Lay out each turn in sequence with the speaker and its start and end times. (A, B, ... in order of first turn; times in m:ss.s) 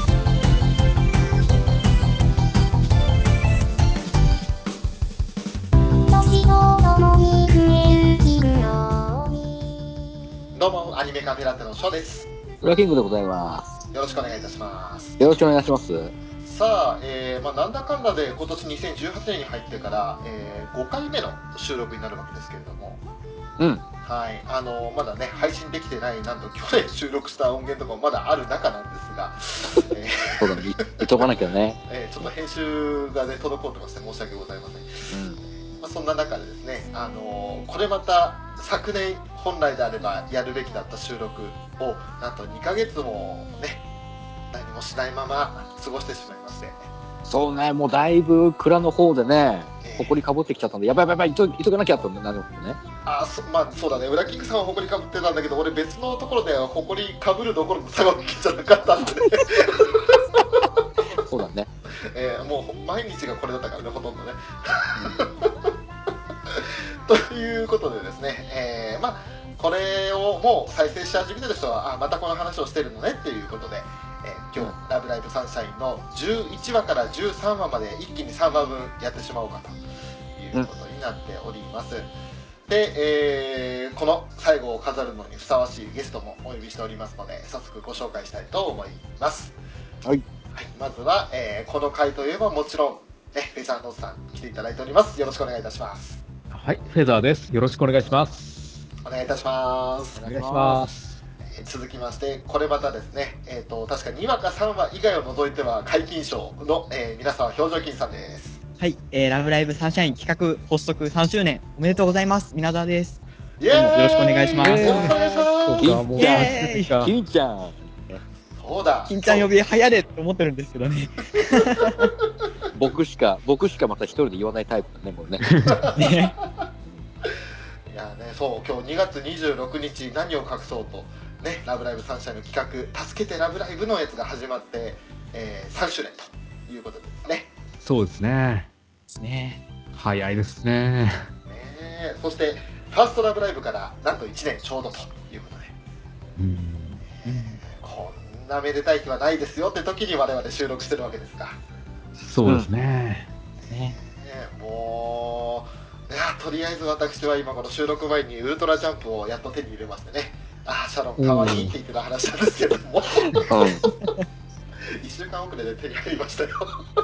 0:06.1-0:09.3 A
0:10.6-0:12.3 B
0:12.6-0:13.7 C
0:13.9-0:15.2 B
0:15.2-0:16.1 C
0:16.4-0:23.0 B
0:24.0-0:31.3 B
0:30.4-0:31.8 C
0:31.9-0:35.1 B
0:35.1-0:35.4 C
0:35.8-0:43.8 B
0:44.5-0:46.9 B
0:47.2-0:52.8 C
0:49.8-0:50.2 B
0:53.1-1:00.2 B
1:01.2-1:01.7 C
1:02.1-1:05.7 B
1:06.5-1:19.8 B
1:20.4-1:22.1 B
1:22.7-1:29.6 B
1:30.5-1:36.2 B
1:36.5-1:38.8 D
1:39.0-1:40.3 B
1:40.2-1:40.9 C
1:40.2-1:41.1 D
1:41.5-1:48.6 B
1:48.8-1:55.1 E
1:53.6-1:56.0 B
1:54.6-1:57.1 D
1:54.8-1:55.2 C
1:55.8-1:58.2 C
1:56.2-1:56.9 E
1:58.6-1:59.5 B
1:59.1-2:02.1 E
2:02.7-2:05.5 C
2:05.5-2:05.8 D
2:05.9-2:06.4 E
2:07.9-2:17.5 B
2:17.8-2:18.7 D
2:19.1-2:19.6 E
2:20.0-2:21.3 D
2:21.5-2:25.7 B
2:26.4-2:27.0 D
2:27.2-2:31.6 B
2:27.3-2:27.6 E
2:32.3-2:33.3 D
2:33.7-2:34.0 E
2:34.0-2:43.6 B
2:41.2-2:41.8 D
2:43.5-2:43.8 C
2:43.9-2:44.2 E
2:45.0-2:46.7 B